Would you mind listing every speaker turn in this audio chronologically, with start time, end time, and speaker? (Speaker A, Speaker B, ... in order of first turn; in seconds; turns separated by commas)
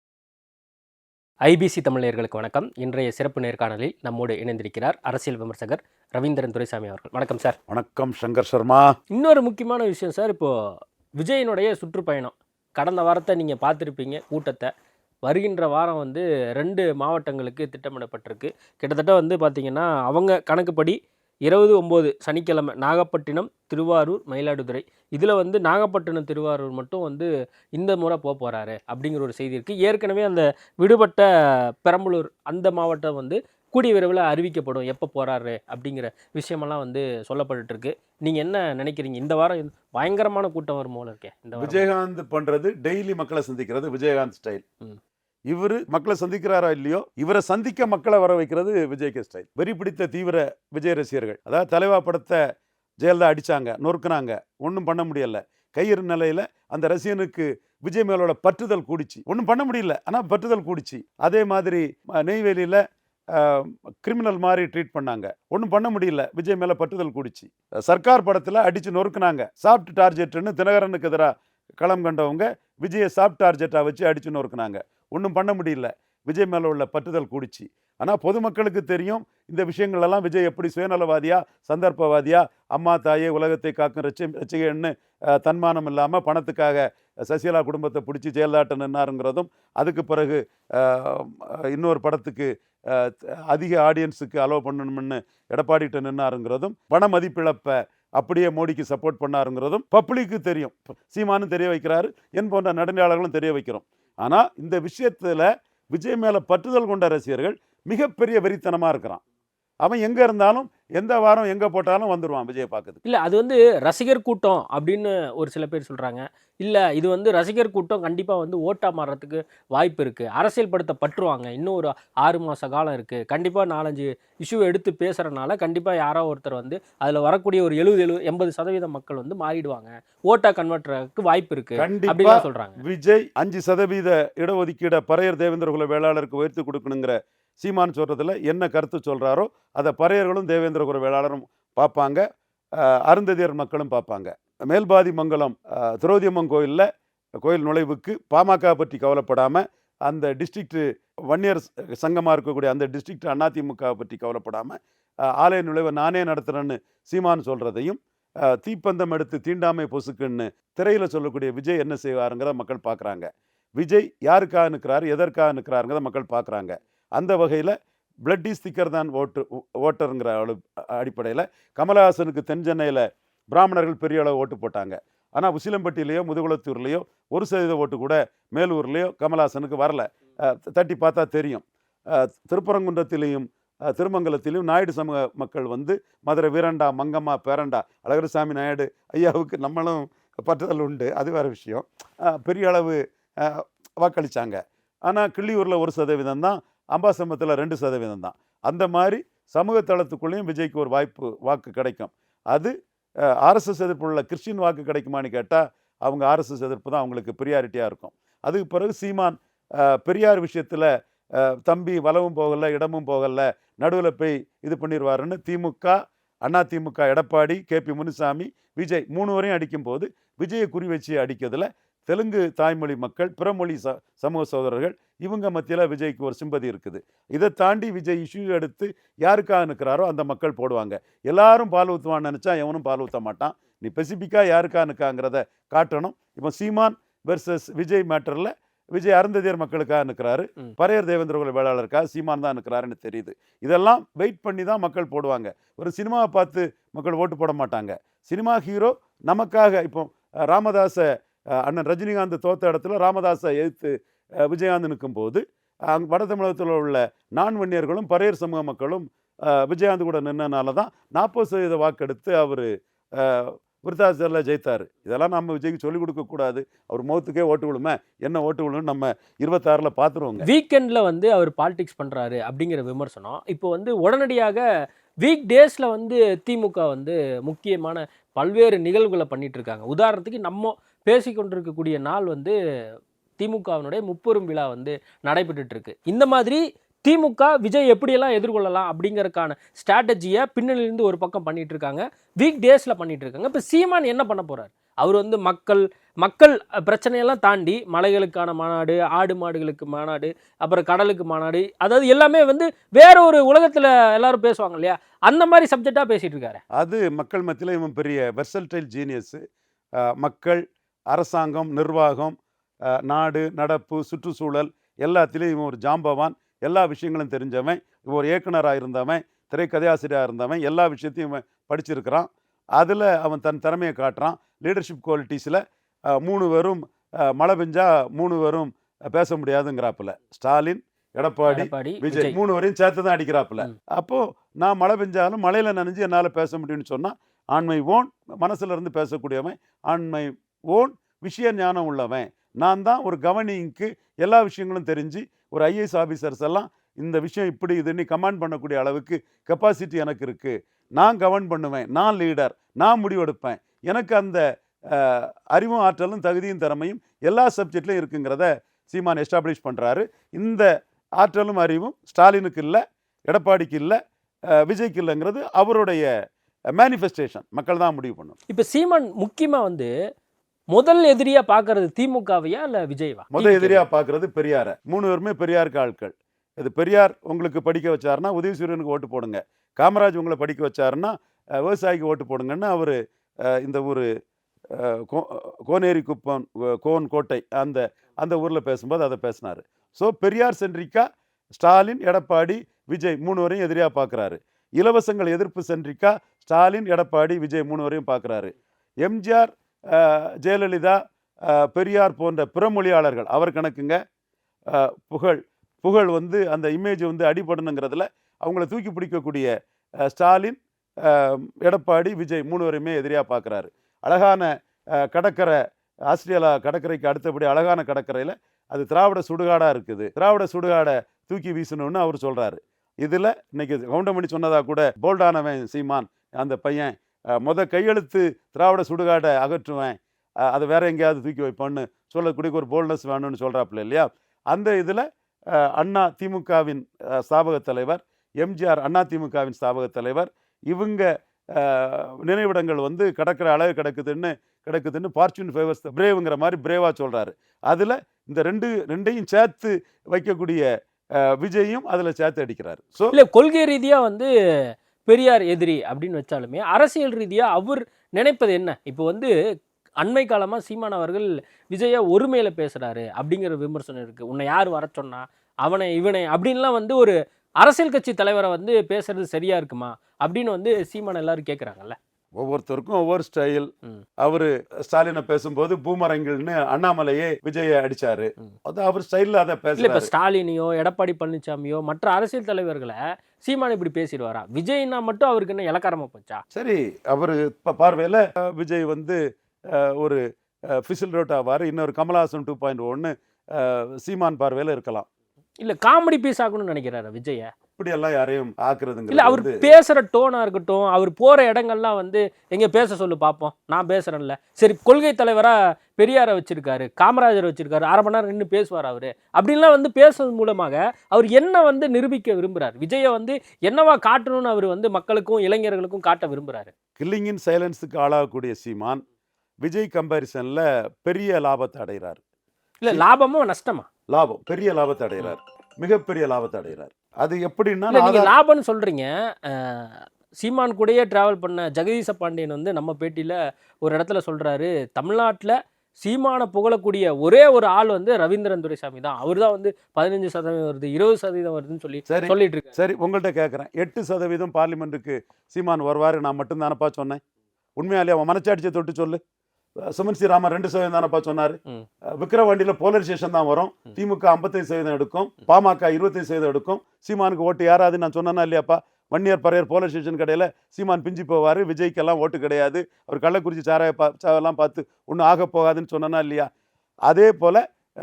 Speaker A: 1.4-7.6, Speaker B: 7.7-8.9, Speaker A: 9.1-14.7, Speaker A: 15.2-31.3, Speaker A: 31.8-41.9, Speaker B: 41.6-44.6, Speaker B: 45.5-52.4, Speaker B: 53.0-62.8, Speaker B: 63.3-109.2, Speaker B: 109.8-113.0, Speaker A: 113.0-132.8, Speaker B: 131.8-142.2, Speaker B: 142.8-146.9, Speaker B: 147.4-154.8, Speaker B: 155.3-167.8, Speaker B: 168.3-202.7, Speaker B: 203.4-270.5, Speaker A: 270.4-274.6, Speaker A: 275.2-282.6, Speaker A: 283.4-306.6, Speaker B: 306.8-309.4, Speaker B: 310.0-312.4, Speaker B: 313.1-325.6, Speaker B: 326.1-360.7, Speaker A: 331.5-332.4, Speaker B: 361.2-364.0, Speaker B: 364.6-366.1, Speaker B: 366.7-368.4, Speaker A: 368.5-369.9, Speaker A: 370.7-373.9, Speaker B: 373.3-383.0, Speaker B: 383.5-384.1, Speaker B: 384.7-391.0, Speaker B: 391.6-401.0, Speaker B: 401.5-404.0, Speaker B: 404.7-409.5, Speaker B: 410.0-415.6, Speaker B: 416.1-450.7, Speaker B: 451.2-453.1, Speaker A: 453.1-454.3, Speaker A: 455.1-459.3, Speaker A: 460.0-472.0, Speaker B: 472.4-473.7, Speaker B: 474.2-480.1, Speaker A: 479.8-486.4, Speaker B: 486.5-489.2, Speaker B: 489.7-495.1, Speaker A: 495.6-497.5, Speaker B: 497.8-499.6, Speaker A: 499.1-516.7, Speaker B: 517.0-519.0, Speaker B: 519.6-522.2, Speaker A: 522.8-523.9, Speaker B: 524.1-528.3, Speaker A: 527.9-542.7, Speaker B: 542.1-547.2, Speaker B: 547.8-549.2, Speaker B: 549.9-551.6, Speaker B: 552.1-566.5, Speaker B: 567.1-567.6